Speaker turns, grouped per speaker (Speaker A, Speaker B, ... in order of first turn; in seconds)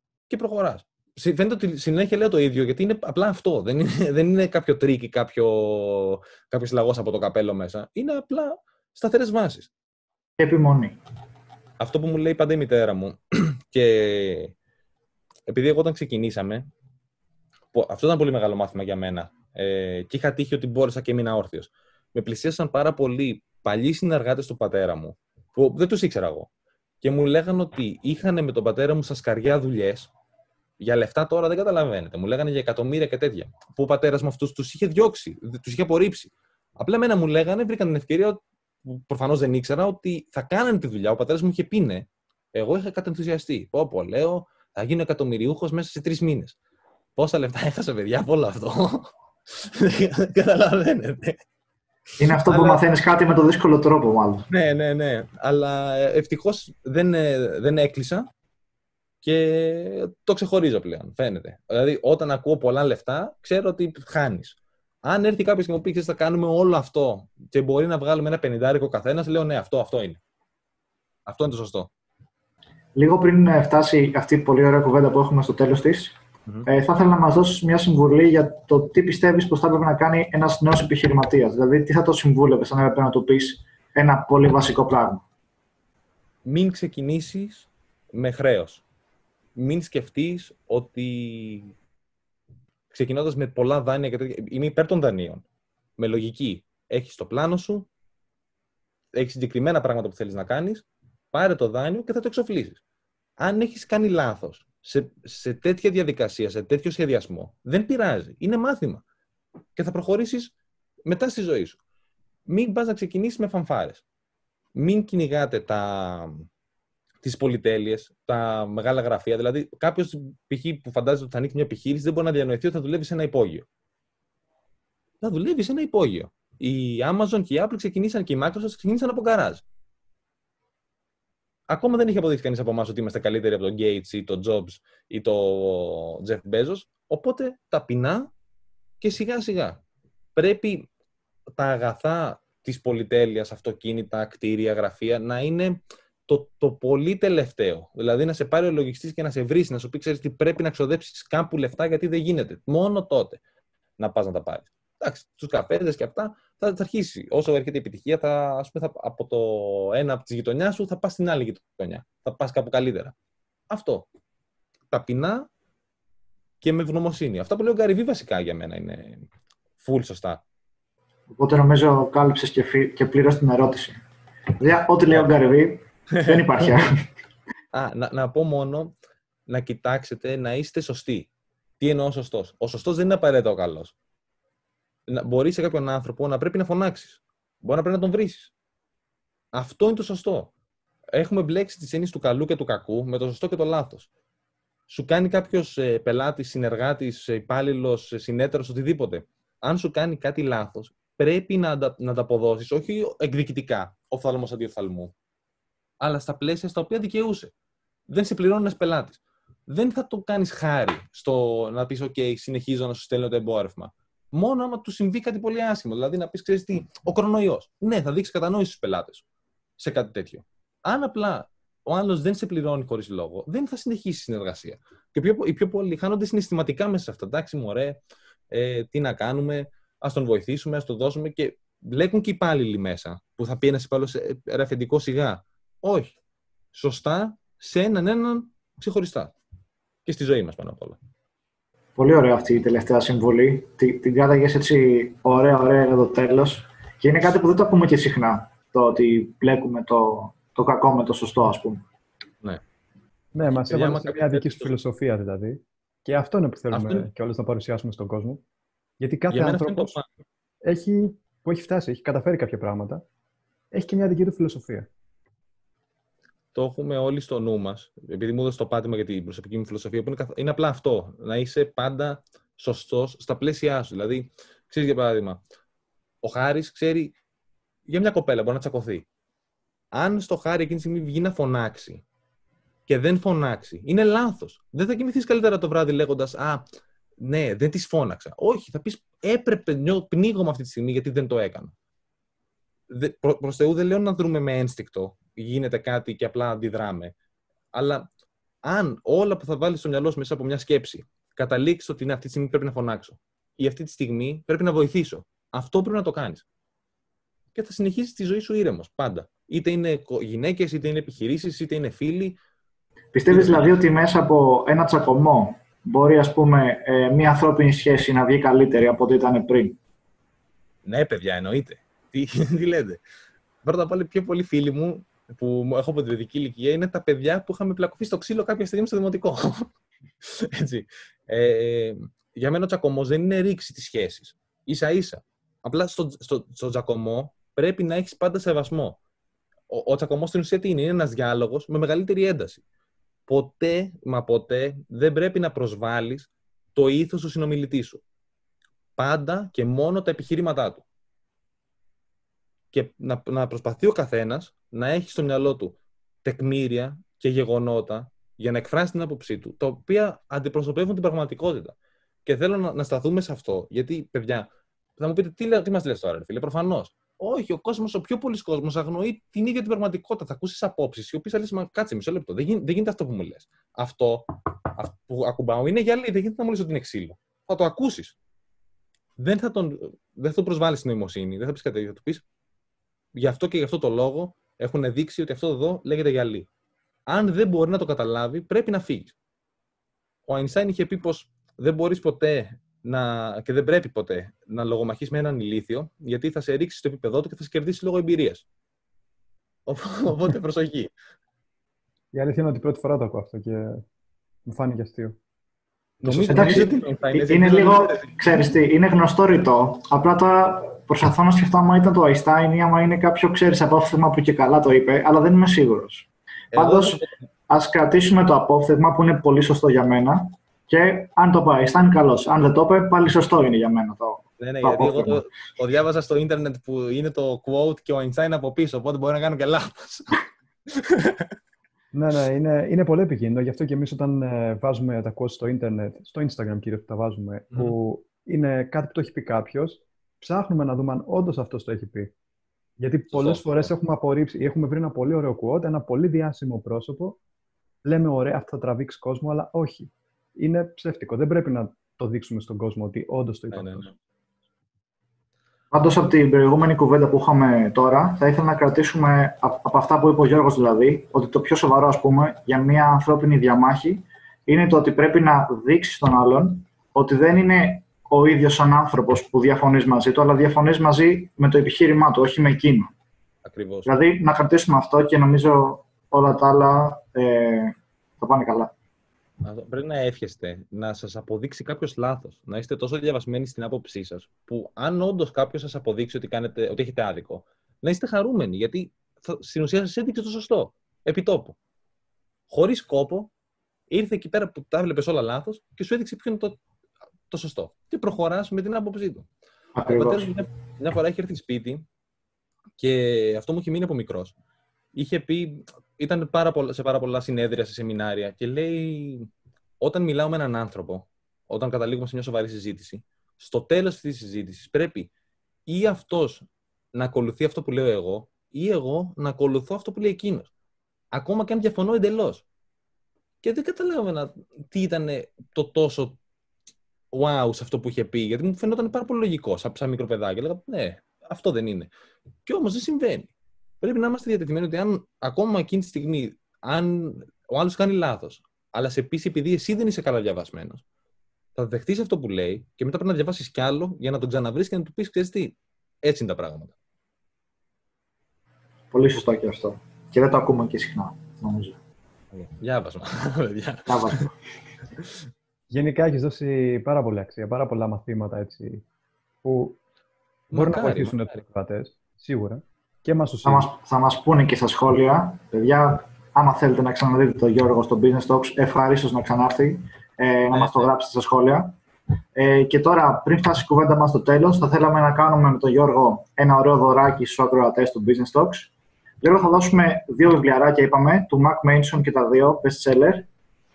Speaker A: 0.3-9.7, 11.8-14.5, 15.5-16.7, 17.7-26.5, 27.0-30.1, 30.8-46.5, 47.1-51.4, 52.3-52.8, 54.5-58.3, 59.2-70.2, 71.3-71.9, 86.4-88.8, 89.5-91.7, 92.9-95.4, 96.0-97.9, 99.1-102.8, 103.4-109.0, 109.8-110.5, 111.0-111.8, 112.5-114.0, 114.7-116.5, 117.2-123.6, 125.2-129.6, 131.7-138.3, 139.0-139.8, 140.3-140.9, 141.6-153.4, 154.0-163.1, 163.7-164.1, 164.9-165.5, 166.6-169.2, 169.8-170.4, 177.7-178.9, 179.5-181.3, 181.8-183.9, 185.1-188.5, 189.5-190.5, 191.1-194.1, 194.9-205.1, 206.0-207.5, 208.1-219.2, 219.8-228.0, 228.5-236.1, 236.7-239.3, 240.1-241.0, 253.5-254.7, 256.7-257.1, 259.3-260.1, 266.5-275.4, 276.2-277.1, 277.9-279.1, 279.9-282.0, 282.9-286.6, 287.2-291.7, 292.9-297.1, 297.7-298.1, 298.6-306.4, 307.5-312.4, 313.3-313.7, 320.8-323.0, 323.6-329.7, 330.2-339.0, 339.7-342.6, 343.3-348.0, 349.0-350.8, 352.7-378.1, 379.2-382.2, 383.1-386.5, 387.1-389.1, 390.3-398.4, 399.7-400.9, 406.0-408.2, 416.5-417.1, 424.4-430.2, 430.7-431.3, 443.1-443.7, 453.5-453.9, 473.4-473.9, 479.4-491.6, 492.5-493.3, 493.9-496.6, 497.3-499.3, 499.9-501.9, 502.8-504.3, 504.9-509.3, 509.8-515.1, 515.7-520.5, 521.1-522.4, 523.4-526.2, 527.1-531.9, 532.5-533.3, 533.8-540.8, 541.5-546.7, 552.3-554.2, 560.5-561.4, 570.5-570.9
Speaker B: 10.4-11.0, 52.2-54.4, 73.0-76.1, 76.7-85.2, 171.3-174.0, 174.6-177.0, 242.0-251.8, 313.1-319.8, 406.3-425.2, 455.7-472.9, 473.9-478.7, 499.8-500.3, 548.9-551.8, 553.9-554.3, 563.4-571.7, 572.3-578.7, 579.2-583.3
Speaker C: 253.3-258.4, 259.0-259.9, 260.6-263.0, 263.7-264.9, 402.1-403.8, 404.4-405.2, 406.0-406.6, 431.9-442.1, 442.8-447.2, 447.8-453.9, 555.7-558.8, 559.4-559.8, 560.5-563.7